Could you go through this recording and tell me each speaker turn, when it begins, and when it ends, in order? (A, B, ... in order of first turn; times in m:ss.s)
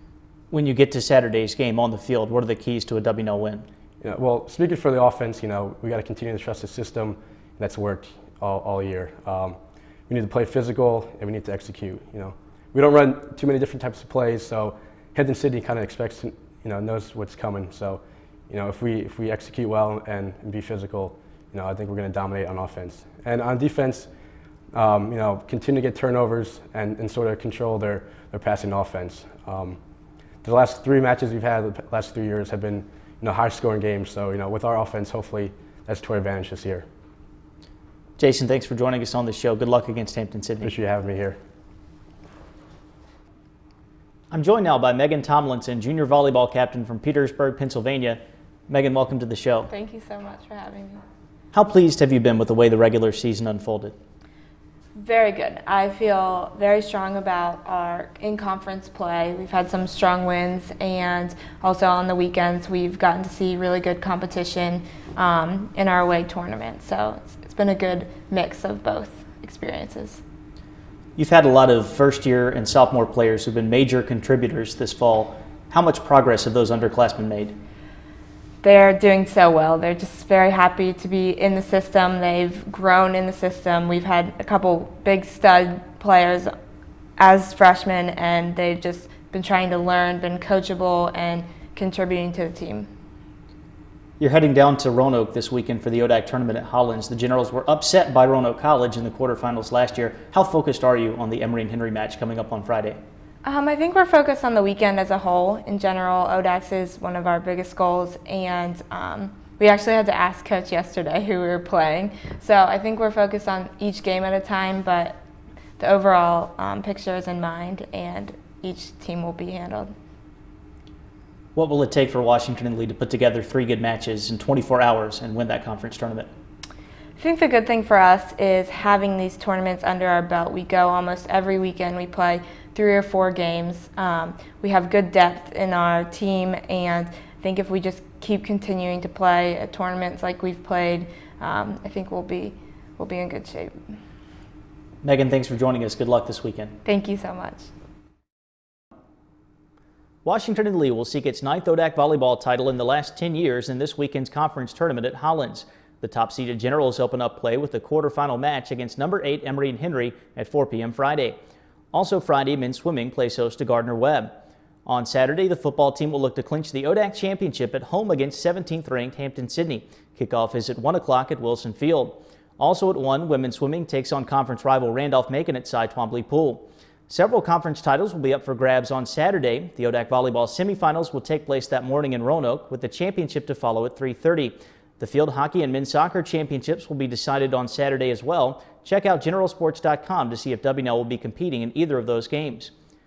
0:00.5-0:03.7 A
0:04.0-0:09.6 B
0:10.1-0:24.1 B
0:24.7-0:29.8 B
0:30.4-0:36.8 B
0:38.2-0:40.7 A
0:40.6-0:41.4 B
0:44.3-0:49.7 A
0:49.7-0:51.0 C
0:51.5-0:53.9 A
0:55.0-1:10.2 C
1:11.2-1:17.6 A
1:18.6-1:26.5 C
1:27.2-1:32.9 C
1:34.2-1:43.0 A
1:43.4-1:55.2 C
1:55.8-1:59.9 C
2:01.6-2:06.3 A
2:07.2-2:23.7 C
2:25.0-2:26.8 A
2:26.8-2:27.7 C
2:30.2-2:41.4 A
2:41.9-2:44.3 A
2:44.8-3:12.7 A